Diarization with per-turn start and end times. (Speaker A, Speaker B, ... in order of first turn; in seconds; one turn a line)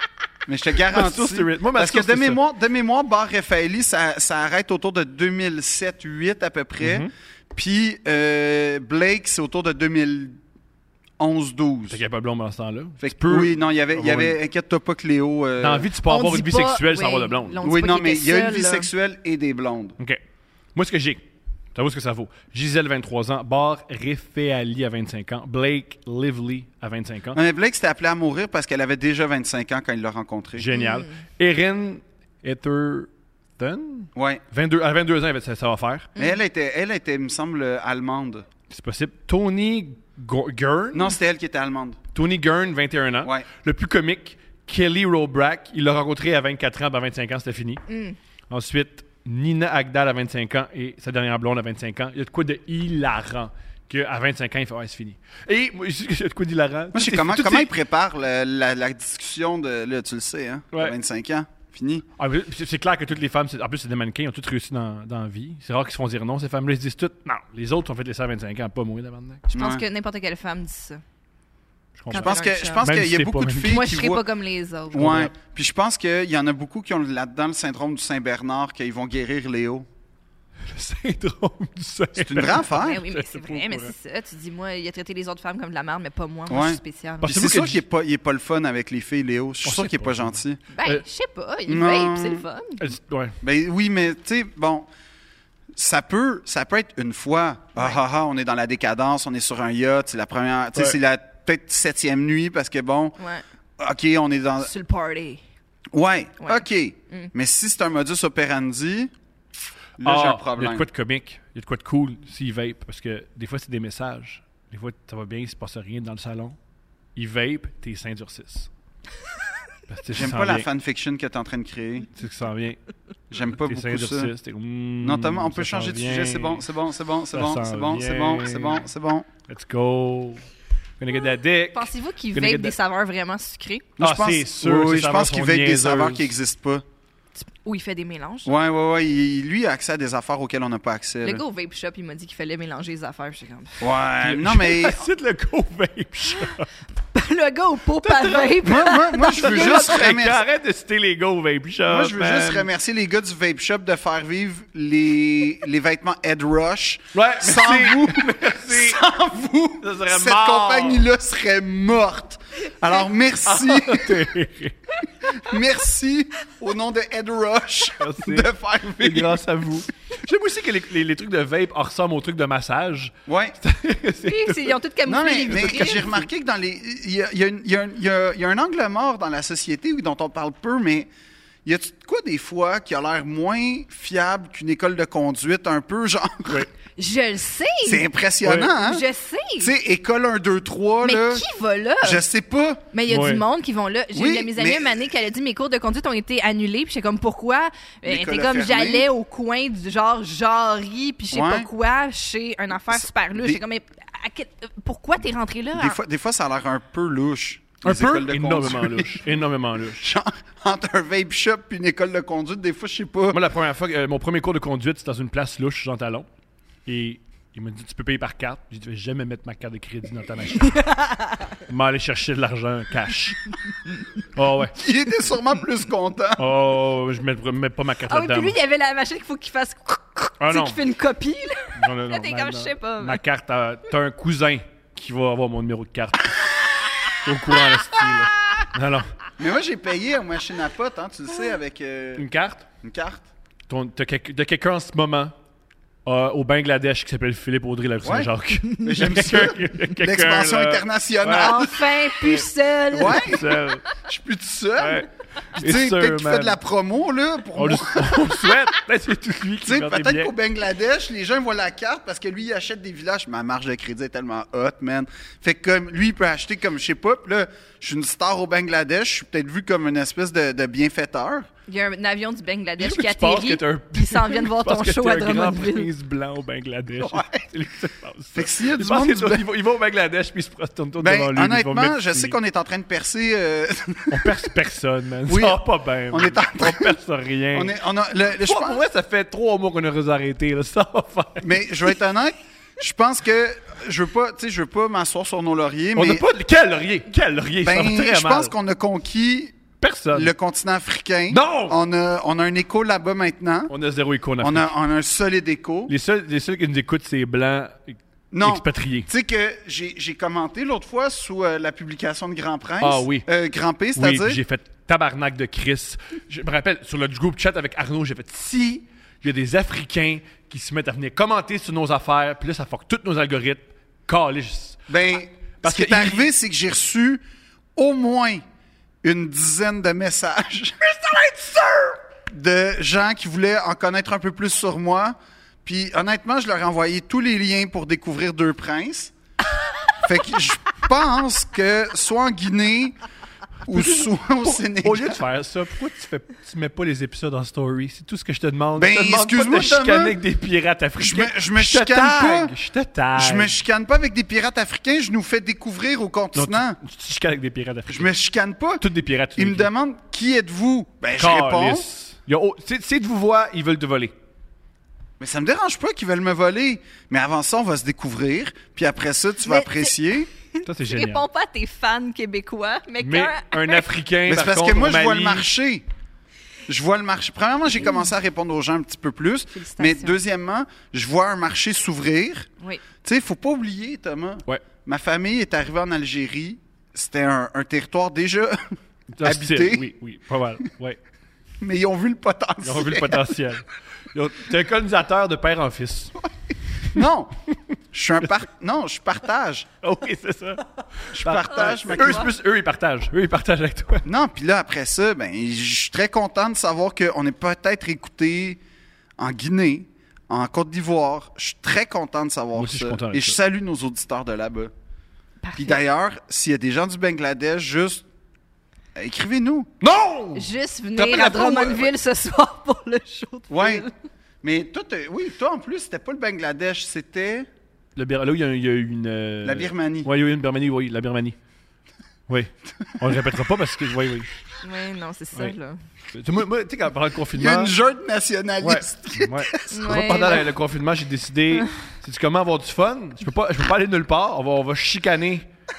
Speaker A: 0.5-10.4
Speaker B: 0.9-2.4
Speaker B: 6.8-7.1
Speaker A: 11.2-12.0
Speaker B: 11.9-14.4
Speaker A: 13.0-15.9
Speaker B: 15.6-17.6
Speaker C: 16.0-18.9
Speaker A: 17.6-20.0
Speaker B: 20.7-21.2
Speaker B: 21.7-27.4
Speaker A: 27.3-30.7
Speaker B: 30.6-36.1
Speaker C: 30.7-31.1
Speaker A: 34.1-34.4
Speaker C: 36.1-36.4
Speaker A: 36.2-38.5
Speaker B: 38.7-41.1
Speaker A: 40.9-42.0
Speaker B: 42.1-47.8
Speaker C: 47.9-48.2
Speaker B: 48.5-57.7
Speaker A: 56.9-62.0
Speaker B: 62.2-69.5
Speaker A: 69.5-69.8
Speaker C: 69.5-71.0
Speaker B: 72.0-73.8
Speaker C: 72.1-72.8
Speaker A: 72.1-74.2
Speaker C: 73.6-75.2
Speaker A: 74.9-79.9
Speaker B: 74.9-75.3
Speaker B: 80.7-83.9
Speaker A: 82.2-83.0
Speaker C: 82.5-87.3
Speaker A: 86.5-90.6
Speaker B: 87.2-87.8
Speaker B: 89.6-91.0
Speaker C: 90.7-92.8
Speaker A: 91.7-92.4
Speaker B: 92.8-93.4
Speaker A: 93.4-94.9
Speaker A: 95.7-103.2
Speaker C: 103.2-103.4
Speaker A: 103.8-104.7
Speaker C: 104.6-105.4
Speaker A: 105.9-109.1
Speaker C: 106.4-107.3
Speaker A: 110.0-110.8
Speaker B: 110.0-116.6
Speaker B: 117.2-118.7
Speaker B: 119.9-120.7
Speaker A: 120.1-122.1
Speaker B: 122.1-122.8
Speaker A: 123.3-124.3
Speaker B: 123.3-126.7
Speaker A: 125.0-129.3
Speaker B: 127.3-128.9
Speaker B: 129.5-130.4
Speaker B: 131.0-132.7
Speaker C: 131.7-133.9
Speaker A: 134.0-136.8
Speaker B: 134.0-136.3
Speaker C: 137.4-138.5
Speaker A: 138.4-141.4
Speaker C: 141.2-143.9
Speaker A: 143.8-145.0
Speaker B: 144.2-146.7
Speaker C: 147.1-150.1
Speaker B: 148.0-152.7
Speaker A: 148.6-150.4
Speaker A: 151.9-164.3
Speaker B: 157.1-159.0
Speaker B: 159.8-161.1
Speaker B: 163.4-164.8
Speaker A: 165.2-169.4
Speaker B: 168.0-174.8
Speaker A: 173.3-173.6
Speaker C: 174.3-176.1
Speaker A: 175.1-181.1
Speaker B: 175.5-176.2
Speaker A: 181.6-186.7
Speaker C: 186.9-188.0
Speaker A: 187.8-189.0
Speaker B: 188.4-188.7
Speaker C: 188.6-189.7
Speaker A: 189.6-191.4
Speaker C: 191.0-192.2
Speaker A: 192.0-192.8
Speaker C: 192.9-206.0
Speaker B: 193.1-193.4
Speaker A: 194.1-195.0
Speaker A: 198.1-199.1
Speaker A: 201.3-201.7
Speaker A: 202.9-203.6
Speaker A: 205.7-209.3
Speaker B: 207.8-210.1
Speaker A: 209.9-213.4
Speaker B: 213.3-216.3
Speaker B: 216.8-220.8
Speaker C: 220.6-221.6
Speaker B: 221.7-223.5
Speaker B: 224.3-224.8
Speaker A: 224.7-226.5
Speaker B: 226.4-228.5
Speaker C: 228.1-233.2
Speaker B: 230.4-230.8
Speaker B: 231.7-236.3
Speaker B: 237.2-239.1
Speaker A: 239.4-242.2
Speaker B: 242.2-242.7
Speaker A: 242.8-243.2
Speaker B: 243.7-245.3
Speaker B: 246.0-251.6
Speaker A: 248.0-248.3
Speaker A: 248.8-253.5
Speaker C: 251.3-253.5
Speaker B: 253.0-253.9
Speaker A: 254.0-258.3
Speaker B: 254.8-256.6
Speaker B: 257.5-260.3
Speaker A: 259.6-271.5
Speaker C: 271.7-275.9
Speaker B: 272.8-282.4
Speaker A: 277.0-277.4
Speaker A: 278.3-279.5
Speaker A: 281.0-284.5
Speaker B: 284.1-287.7
Speaker A: 285.3-287.0
Speaker A: 287.5-288.8
Speaker B: 288.4-291.6
Speaker A: 291.4-296.2
Speaker B: 295.9-298.5
Speaker A: 297.6-299.6
Speaker B: 299.8-300.3
Speaker A: 300.1-303.7
Speaker B: 301.3-301.8
Speaker B: 303.7-304.7
Speaker A: 304.4-305.9
Speaker B: 305.9-309.1
Speaker A: 308.3-314.4
Speaker B: 312.8-313.3
Speaker B: 313.9-324.8
Speaker A: 324.9-327.2
Speaker B: 325.6-326.3
Speaker A: 327.8-328.4
Speaker A: 329.0-330.9
Speaker B: 331.1-331.9
Speaker A: 332.3-339.1
Speaker A: 340.0-343.0
Speaker A: 343.6-345.2
Speaker B: 343.7-353.6
Speaker A: 348.8-350.2
Speaker A: 351.0-352.5
Speaker A: 353.1-356.8
Speaker B: 356.3-358.1
Speaker A: 357.9-358.8
Speaker B: 358.8-359.7
Speaker A: 359.4-361.9
Speaker B: 361.2-364.1
Speaker A: 365.2-370.3
Speaker C: 369.4-369.9
Speaker C: 370.5-373.8
Speaker B: 370.6-371.2
Speaker B: 373.0-375.5
Speaker A: 374.3-375.8
Speaker A: 376.7-382.5
Speaker C: 379.5-380.2
Speaker A: 383.0-389.9
Speaker B: 389.1-391.0
Speaker A: 391.6-393.4
Speaker B: 392.6-396.2
Speaker A: 396.9-397.3
Speaker A: 397.9-399.7
Speaker B: 399.8-404.1
Speaker A: 401.1-402.3
Speaker C: 402.0-402.2
Speaker A: 404.0-408.6
Speaker A: 409.2-414.7
Speaker B: 412.5-413.4
Speaker C: 415.4-415.8
Speaker A: 415.6-418.0
Speaker A: 418.9-419.7
Speaker B: 419.8-421.9
Speaker C: 420.3-423.9
Speaker A: 423.5-423.9
Speaker A: 424.4-427.5
Speaker B: 427.9-431.4
Speaker A: 429.4-430.1
Speaker B: 432.3-434.3
Speaker C: 434.6-435.8
Speaker B: 436.1-437.7
Speaker A: 437.3-440.0
Speaker B: 438.6-445.4
Speaker C: 439.7-440.5